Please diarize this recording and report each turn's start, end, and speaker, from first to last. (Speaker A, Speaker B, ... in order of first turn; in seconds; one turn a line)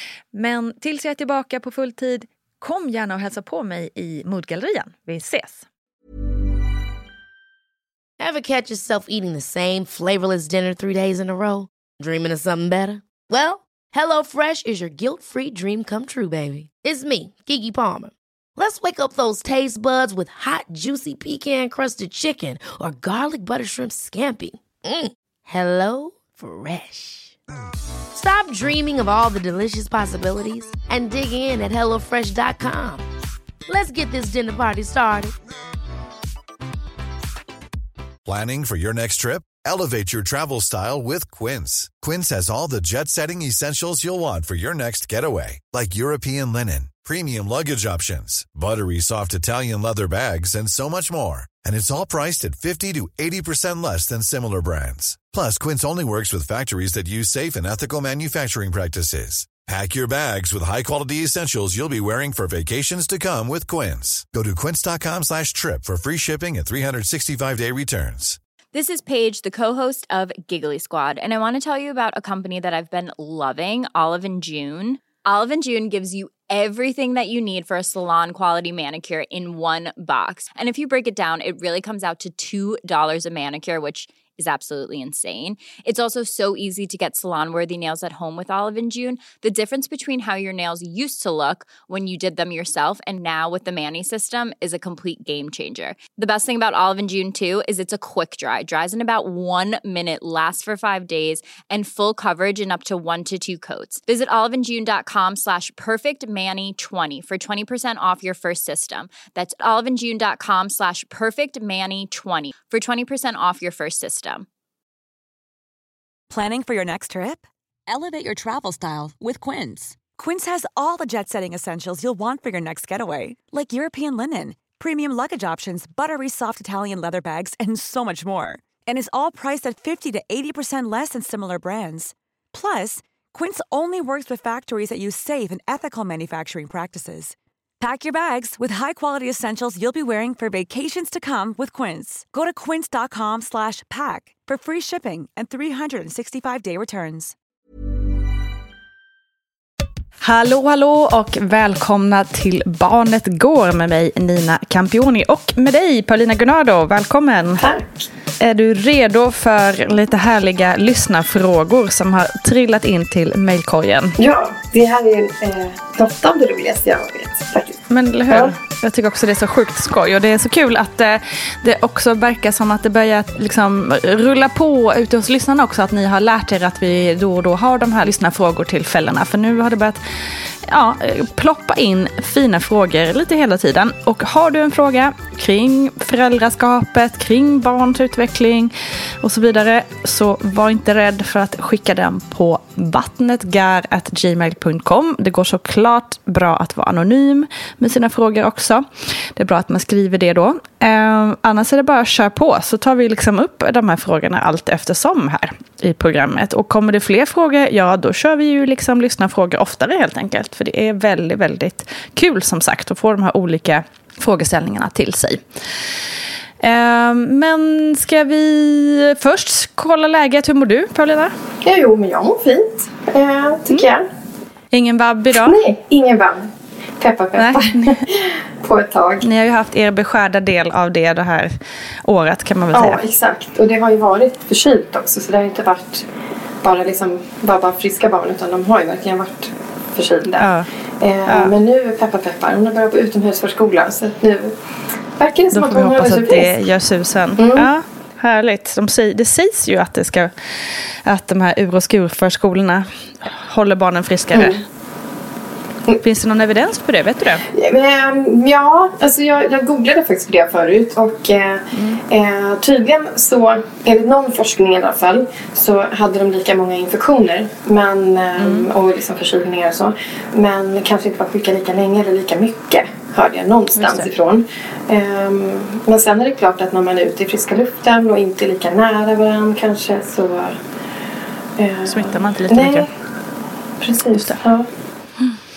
Speaker A: 0.3-5.7
Speaker B: 8.2-27.4
Speaker B: 28.1-33.0
Speaker B: 33.7-35.4
Speaker C: 38.3-68.4
Speaker D: 68.7-114.5
Speaker E: 116.3-147.3
Speaker A: 150.2-157.7
Speaker F: 157.6-158.1
Speaker A: 158.4-164.2
Speaker F: 164.2-168.5
Speaker A: 167.9-180.0
Speaker A: 180.7-198.8
Speaker A: 199.4-215.4
Speaker A: 216.6-221.3
Speaker F: 221.6-224.1
Speaker A: 224.7-225.6
Speaker F: 225.3-229.2
Speaker A: 227.4-228.0
Speaker A: 229.2-231.5
Speaker A: 232.1-233.0
Speaker F: 232.7-236.1
Speaker F: 236.6-244.6
Speaker A: 240.4-240.7
Speaker A: 241.3-241.5
Speaker F: 245.2-246.6
Speaker A: 245.5-250.3
Speaker F: 247.4-247.7
Speaker A: 251.1-254.6
Speaker F: 254.3-254.6
Speaker A: 256.0-257.4
Speaker F: 257.5-280.6
Speaker A: 261.7-262.0
Speaker A: 268.4-268.7
Speaker A: 273.8-274.1
Speaker F: 281.6-282.9
Speaker A: 281.9-282.9
Speaker F: 283.8-284.7
Speaker A: 284.1-284.4